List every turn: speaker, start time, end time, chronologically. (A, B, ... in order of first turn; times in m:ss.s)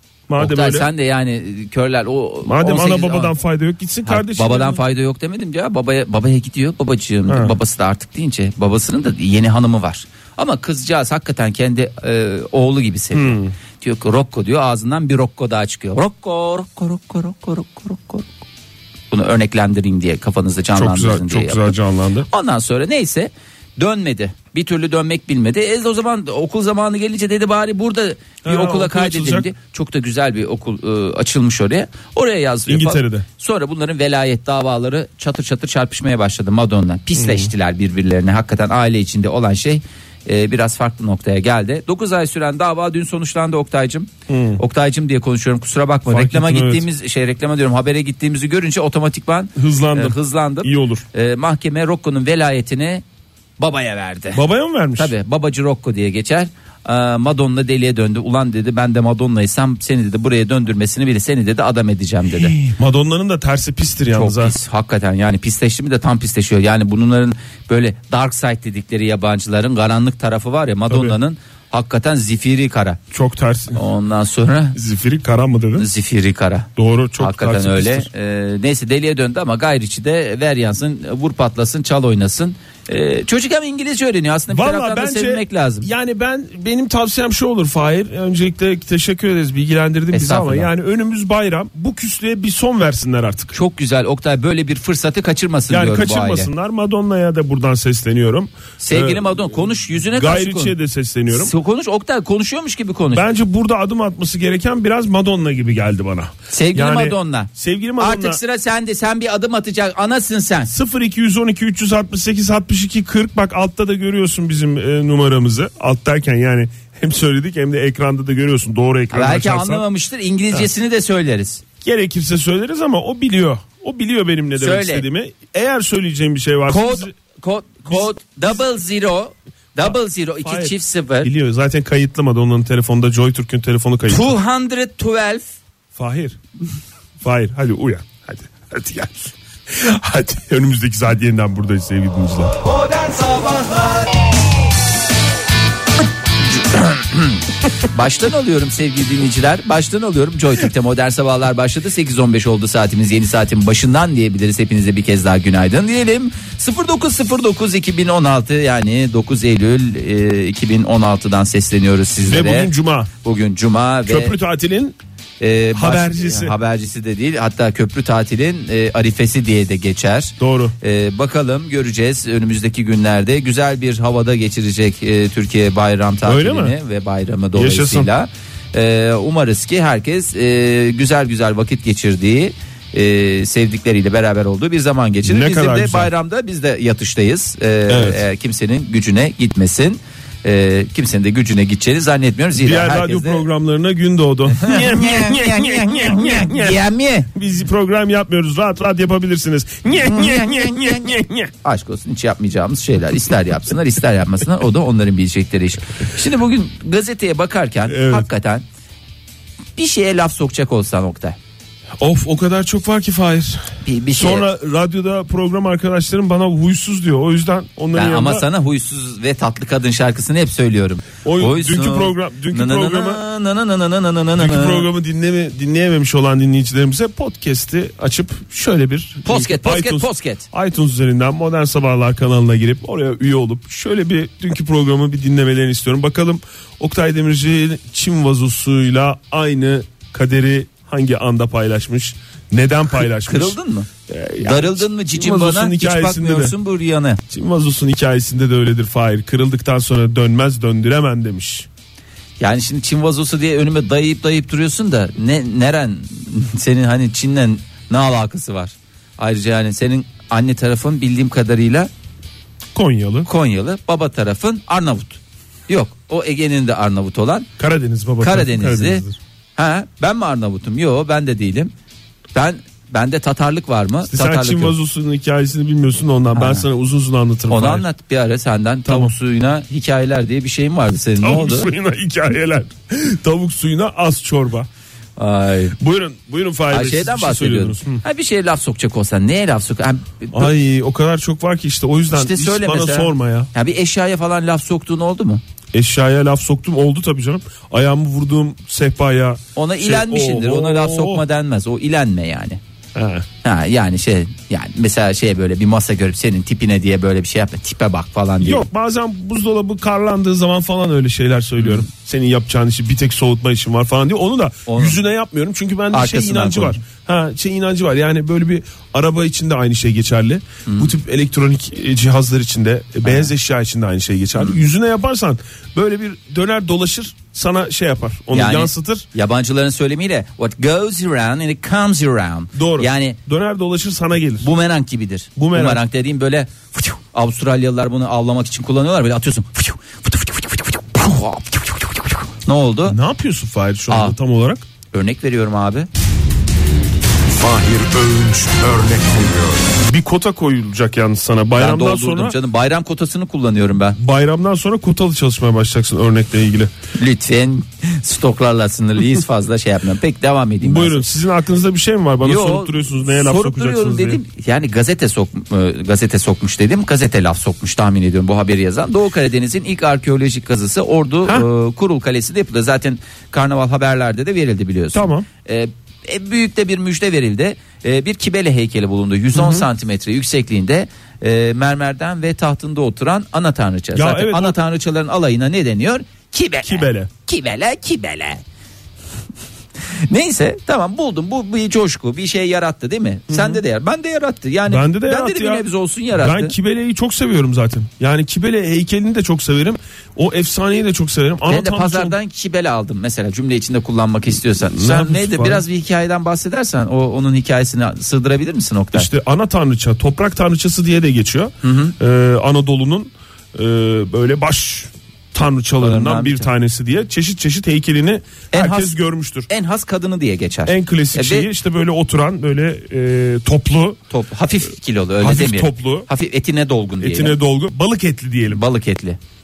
0:00.3-0:00.9 A
0:00.4-0:03.3 B
0:02.4-0:04.8 A
0:04.0-0:18.3 B
0:07.3-0:07.6 A
0:13.1-0:13.5 A
0:19.1-0:21.8 B
0:20.7-0:22.3 A
0:22.3-0:53.0 B
0:28.4-0:29.5 A
0:32.7-0:33.2 A
0:37.2-0:37.5 A
0:44.3-0:44.6 A
0:46.1-0:46.8 A
0:49.6-0:51.0 A
0:53.6-0:54.4 B
0:54.3-0:55.1 A
0:55.0-1:02.6 B
1:02.3-1:04.6 A
1:04.1-1:13.0 B
1:10.9-1:11.2 A
1:13.1-1:13.8 A
1:13.7-1:14.8 B
1:14.8-1:15.9 A
1:15.8-1:25.9 B
1:16.8-1:18.1 A
1:24.5-1:33.6 A
1:30.1-1:30.7 B
1:33.5-1:36.5 B
1:35.7-1:39.5 A
1:38.8-1:40.7 B
1:40.0-1:41.5 A
1:41.3-1:43.2 B
1:43.1-1:48.4 A
1:46.5-1:50.7 B
1:50.7-1:59.8 A
1:59.1-2:01.6 B
2:01.8-2:07.1 A
2:04.6-2:05.0 B
2:06.7-2:11.3 B
2:10.4-2:14.3 A
2:14.1-2:15.5 B
2:15.9-2:16.4 A
2:17.2-2:22.6 A
2:22.9-2:24.0 B
2:26.4-2:42.7 B
2:42.2-2:43.1 A
2:43.2-2:44.4 B
2:44.1-2:45.0 A
2:45.4-3:13.4 B
2:45.7-2:46.5 A
2:50.4-2:50.7 A
2:56.2-2:56.7 A
2:57.5-2:58.1 A
3:05.2-3:06.1 A
3:07.9-3:08.2 A
3:12.6-3:16.8 A
3:14.5-3:17.3 B
3:17.3-3:21.5 A
3:20.0-3:28.6 B
3:27.9-3:28.3 A
3:29.8-3:31.4 B
3:32.0-3:38.4 A
3:33.8-3:34.5 B
3:37.9-3:44.9 B
3:41.2-3:43.2 A
3:44.4-4:03.6 A
3:49.2-3:50.4 B
4:03.1-4:07.2 B
4:04.1-4:06.5 A
4:07.3-4:11.7 A
4:12.4-4:21.9 B
4:22.7-4:23.3 A
4:23.2-4:27.5 B
4:27.6-4:29.2 A
4:28.2-4:29.0 B
4:29.6-4:31.7 B
4:32.3-4:34.7 B
4:34.1-4:37.8 A
4:36.3-4:36.6 B
4:37.5-4:41.7 B
4:38.8-4:39.1 A
4:41.2-4:44.7 A
4:45.2-4:45.8 B
4:45.8-4:48.0 A
4:46.7-4:50.5 B
4:50.3-4:53.5 A
4:52.1-4:55.4 B
4:55.7-5:01.2 A
4:59.6-5:02.6 B
5:02.9-5:03.2 A
5:03.4-5:08.6 B
5:08.4-5:29.1 A
5:11.6-5:11.9 B
5:14.7-5:15.0 B
5:15.9-5:16.8 B
5:20.6-5:20.9 B
5:23.0-5:23.3 B
5:28.3-5:33.2 B
5:32.5-5:34.5 A
5:34.4-5:43.0 B
5:35.4-5:35.8 A
5:42.8-5:44.6 A
5:43.9-5:44.2 B
5:44.9-5:45.9 B
5:47.3-5:49.7 C
5:49.8-5:52.4 A
5:51.5-5:54.0 B
5:54.0-5:56.7 A
5:56.9-6:01.0 B
6:00.6-6:04.2 A
6:02.2-6:28.4 B
6:14.9-6:15.3 A
6:19.3-6:19.6 A
6:23.9-6:24.6 A
6:26.6-6:27.1 A
6:29.9-6:36.5 B
6:33.3-6:33.6 A
6:34.7-6:42.1 A
6:41.5-6:49.1 B
6:44.6-6:45.6 A
6:48.9-6:59.5 A
6:51.6-6:52.0 B
6:55.8-6:56.5 B
6:58.5-6:58.9 B
6:59.5-7:01.5 B
7:00.6-7:04.0 A
7:04.1-7:07.4 B
7:05.2-7:06.1 A
7:07.0-7:08.6 A
7:08.5-7:09.2 B